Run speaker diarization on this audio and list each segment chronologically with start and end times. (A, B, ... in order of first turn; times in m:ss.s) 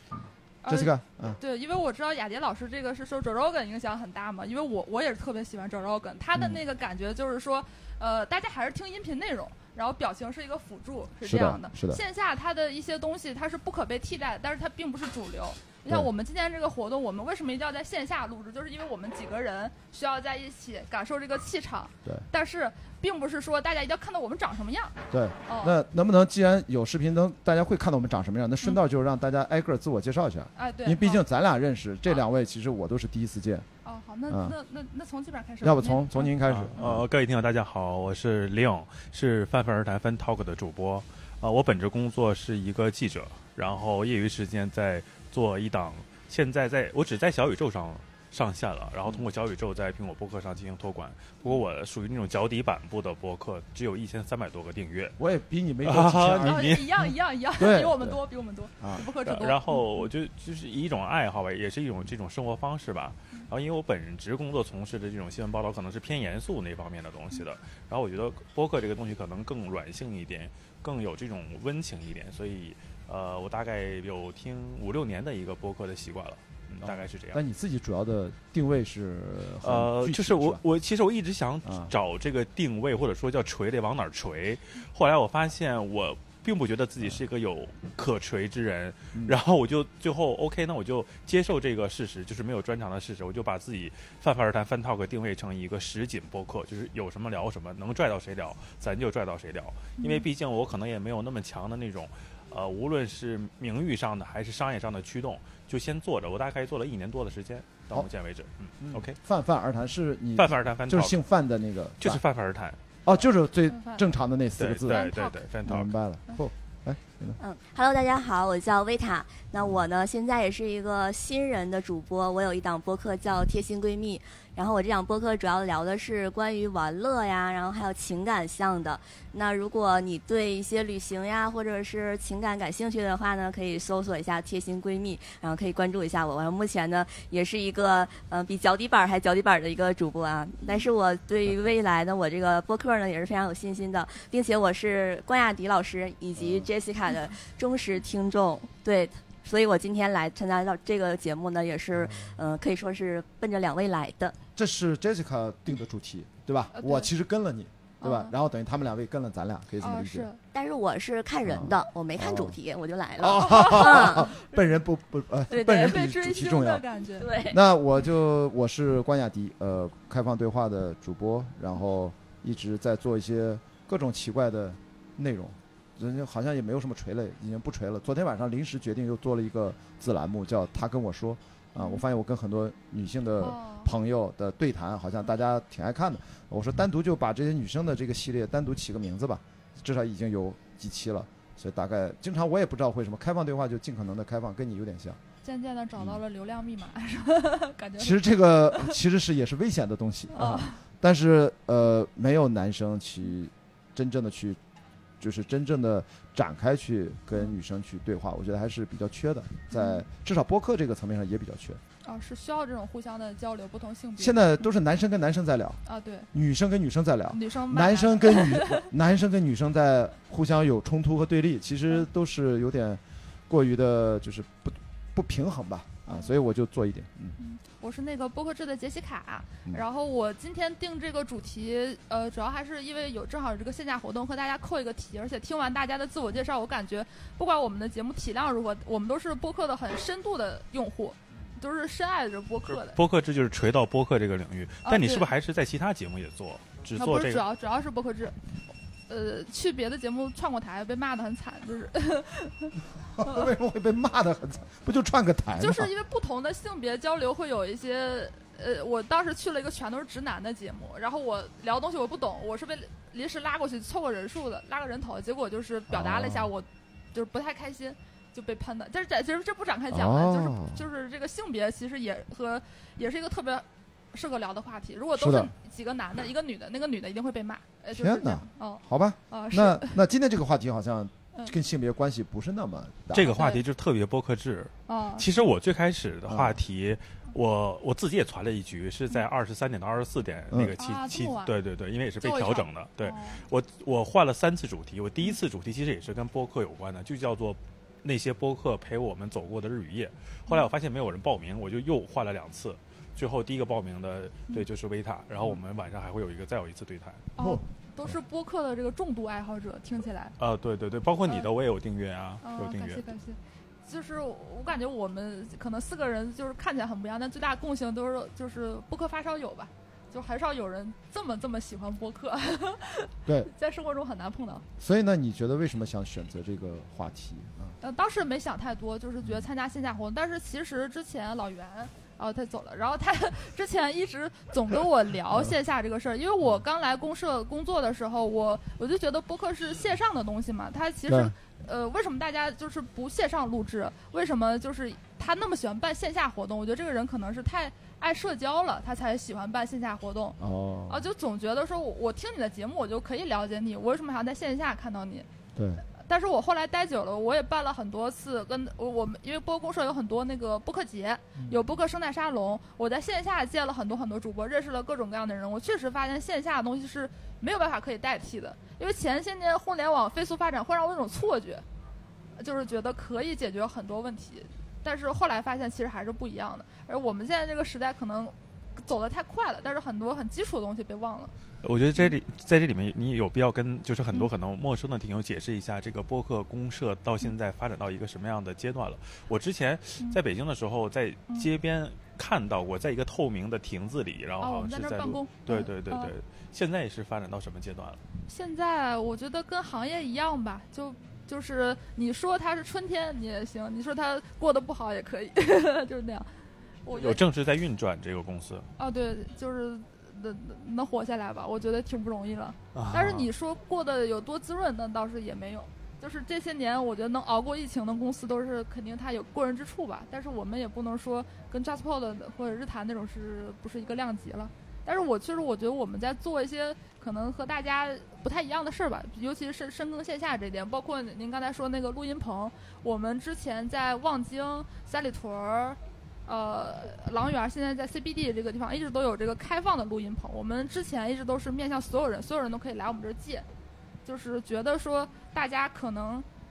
0:00.1-0:01.4 A
0:00.6-0:25.7 B
0:11.2-0:12.0 A
0:25.1-0:33.7 A
0:30.6-0:31.2 B
0:33.8-0:36.3 B
0:34.3-0:34.5 A
0:35.6-0:37.0 A
0:36.4-0:55.2 C
0:55.2-0:56.8 A
0:55.8-0:56.9 C
0:56.4-1:00.0 B
0:57.6-0:58.2 A
0:59.0-1:17.4 C
1:16.8-1:20.6 A
1:19.6-1:49.2 C
1:21.6-1:21.9 A
1:40.0-1:40.2 B
1:48.8-1:52.2 A
1:50.4-1:51.2 C
1:52.0-1:52.8 C
1:53.0-1:55.1 A
1:53.7-1:54.0 B
1:54.6-1:55.9 C
1:54.9-1:55.4 B
1:55.6-1:57.4 A
1:57.4-2:34.4 D
2:26.4-2:26.7 A
2:31.9-2:32.3 A
2:34.6-2:40.3 A
2:36.7-2:37.1 B
2:38.0-2:38.3 B
2:39.8-2:40.4 B
2:40.5-2:44.3 D
2:41.4-2:42.6 A
2:43.2-2:46.8 A
2:43.5-2:44.5 B
2:45.5-2:46.0 D
2:45.5-2:47.5 B
2:47.2-2:47.6 D
2:47.5-3:15.2 A
3:01.8-3:02.0 B
3:03.4-3:03.9 B
3:15.4-3:19.0 B
3:18.0-3:24.6 A
3:20.3-3:20.8 B
3:25.2-3:31.8 A
3:29.7-3:30.0 B
3:32.0-3:34.6 B
3:34.2-3:35.8 A
3:35.8-3:36.3 B
3:36.3-3:47.4 A
3:37.3-3:38.8 B
3:46.0-3:46.3 B
3:47.4-4:03.0 B
4:02.7-4:07.4 C
4:04.8-4:05.3 B
4:07.0-4:08.4 B
4:09.1-4:12.7 B
4:13.1-4:15.9 A
4:15.6-4:40.0 B
4:25.9-4:26.5 A
4:29.9-4:30.8 A
4:35.2-4:35.5 A
4:37.9-4:43.3 A
4:43.1-5:07.3 C
4:43.3-4:43.6 B
4:44.9-4:45.3 B
4:46.3-4:46.5 A
4:50.8-4:51.5 B
4:52.2-4:53.4 B
5:07.4-5:08.1 A
5:07.4-5:10.4 B
5:10.4-5:13.0 C
5:12.4-5:24.6 B
5:24.8-5:27.7 A
5:27.8-5:55.3 B
5:41.1-5:41.3 A
5:50.4-5:51.0 A
5:55.5-5:55.8 A
5:56.0-6:11.6 B
6:12.4-6:21.3 B
6:21.6-6:38.0 C
6:34.4-6:36.1 B
6:38.3-6:46.3 B
6:46.8-6:47.2 B
6:46.9-6:48.7 C
6:48.8-7:23.4 B
6:52.7-6:53.3 C
7:24.0-7:26.2 B